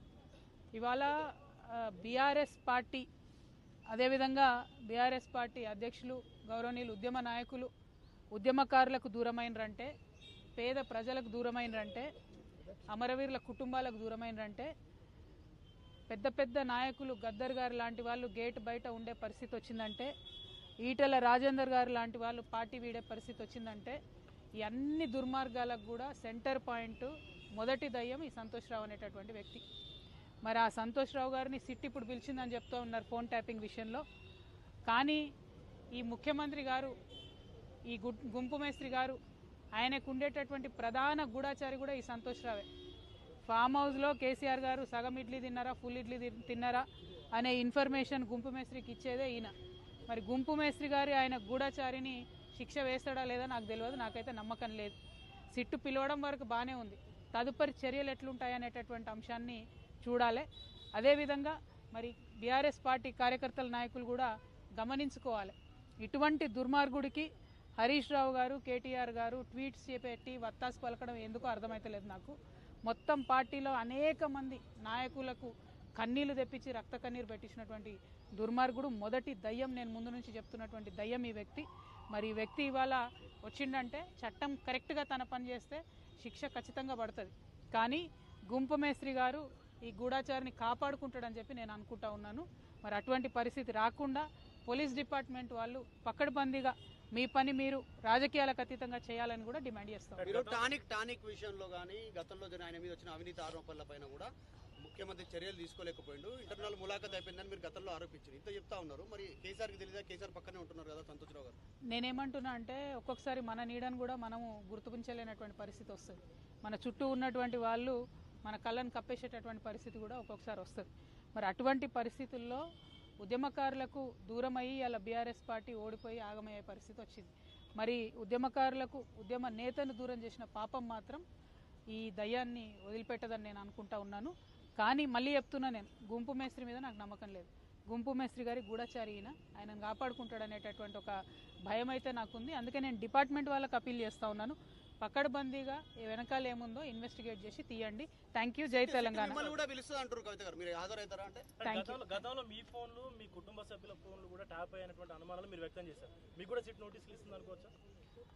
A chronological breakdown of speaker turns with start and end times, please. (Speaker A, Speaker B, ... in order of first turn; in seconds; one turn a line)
Speaker A: 0.8-3.1
Speaker A: 3.9-7.7
Speaker A: 8.3-9.9
Speaker A: 10.6-12.1
Speaker A: 12.9-14.7
Speaker A: 16.1-20.1
Speaker A: 20.8-24.0
Speaker A: 24.6-29.6
Speaker A: 30.4-34.0
Speaker A: 34.9-35.2
Speaker A: 35.9-37.0
Speaker A: 37.9-39.2
Speaker A: 39.8-42.7
Speaker A: 43.5-49.5
Speaker A: 50.1-55.0
Speaker A: 55.5-67.3
Speaker A: 67.8-100.3
Speaker B: 100.2-100.7
Speaker C: 100.3-104.3
Speaker C: 104.8-111.6
Speaker A: 111.9-122.7
Speaker A: 123.2-131.2
Speaker A: 131.9-149.5
Speaker C: 148.8-151.5
Speaker B: 151.6-157.7
Speaker A: 151.6-152.1